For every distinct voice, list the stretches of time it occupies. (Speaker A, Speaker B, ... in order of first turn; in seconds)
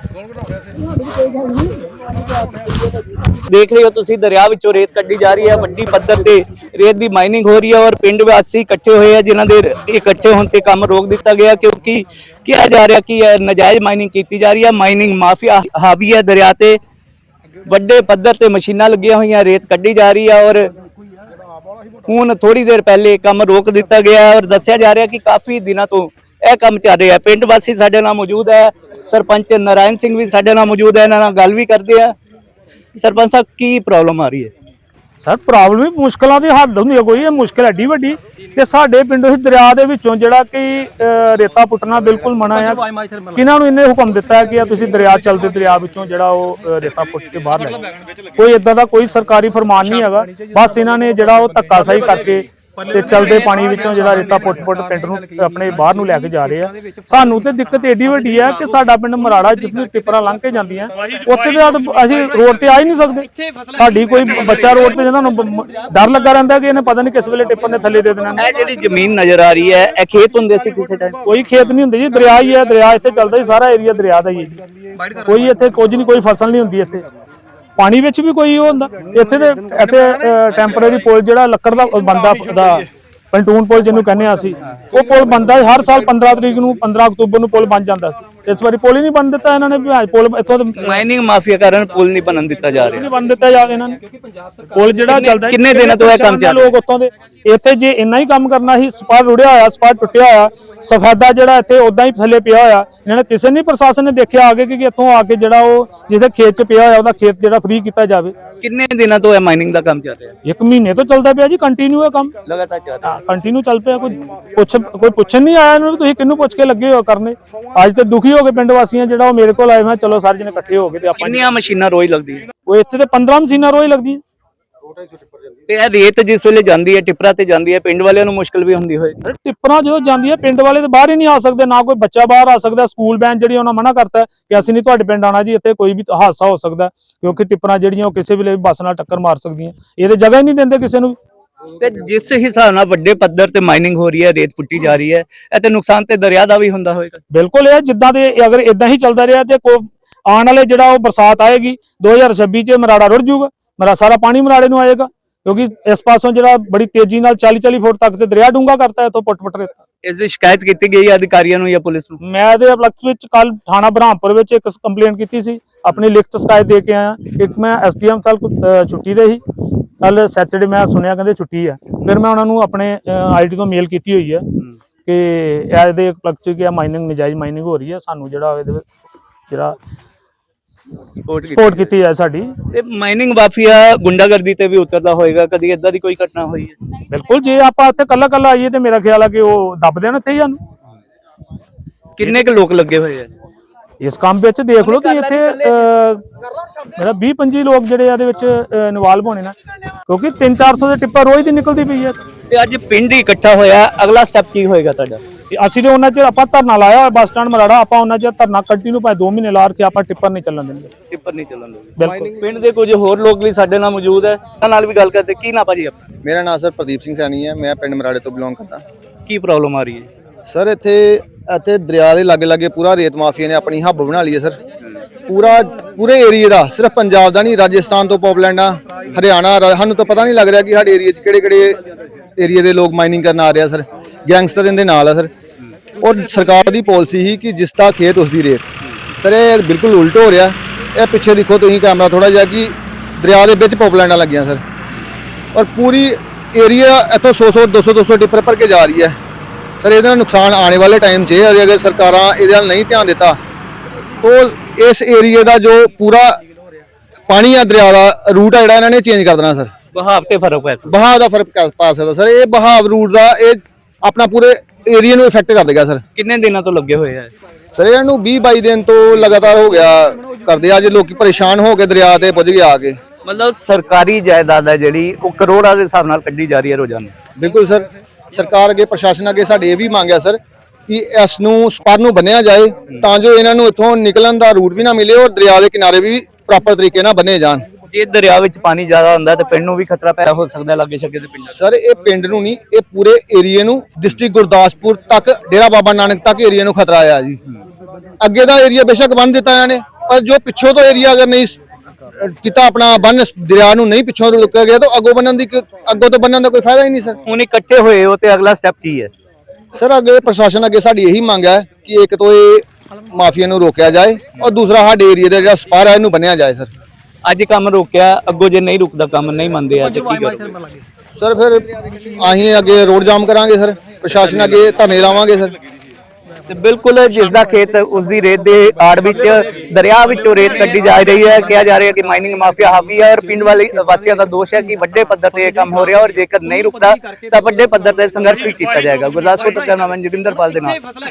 Speaker A: 3.3-16.8, 17.7-20.7, 22.1-32.1, 33.0-34.5, 68.4-71.2, 90.8-93.1, 95.1-96.7, 108.6-110.3, 112.5-113.2, 121.2-122.5, 125.7-129.2, 141.8-147.2, 160.0-162.2, 181.2-181.9, 182.7-186.8, 192.2-193.3, 194.8-195.9, 202.5-205.2, 211.1-216.0, 219.3-220.1, 259.9-260.9, 266.1-267.3, 273.2-277.1, 287.9-291.6, 307.3-309.1, 317.2-320.5, 324.1-324.8, 326.5-340.8
Speaker B: 35.2-47.8, 48.4-68.4, 71.2-74.6, 75.3-77.0, 77.8-91.0, 92.9-94.0, 94.8-108.3, 110.4-112.3, 113.1-121.5, 122.7-124.2, 129.2-141.2, 147.3-159.8, 162.2-169.4, 170.0-174.4, 175.1-178.8, 179.5-179.8, 181.5-182.5, 187.1-190.6, 194.0-196.2, 197.0-199.6, 200.1-202.2, 205.5-210.9, 212.0-212.3
Speaker C: 216.2-218.8, 220.5-224.6, 225.3-231.8, 232.4-235.3, 236.0-238.7, 239.2-244.6, 245.5-249.2, 249.8-253.4, 254.2-256.4, 257.3-259.7, 260.9-266.0, 267.8-273.0, 277.4-287.6, 291.6-297.4, 298.2-301.6, 302.2-307.2, 309.8-316.7, 321.2-325.6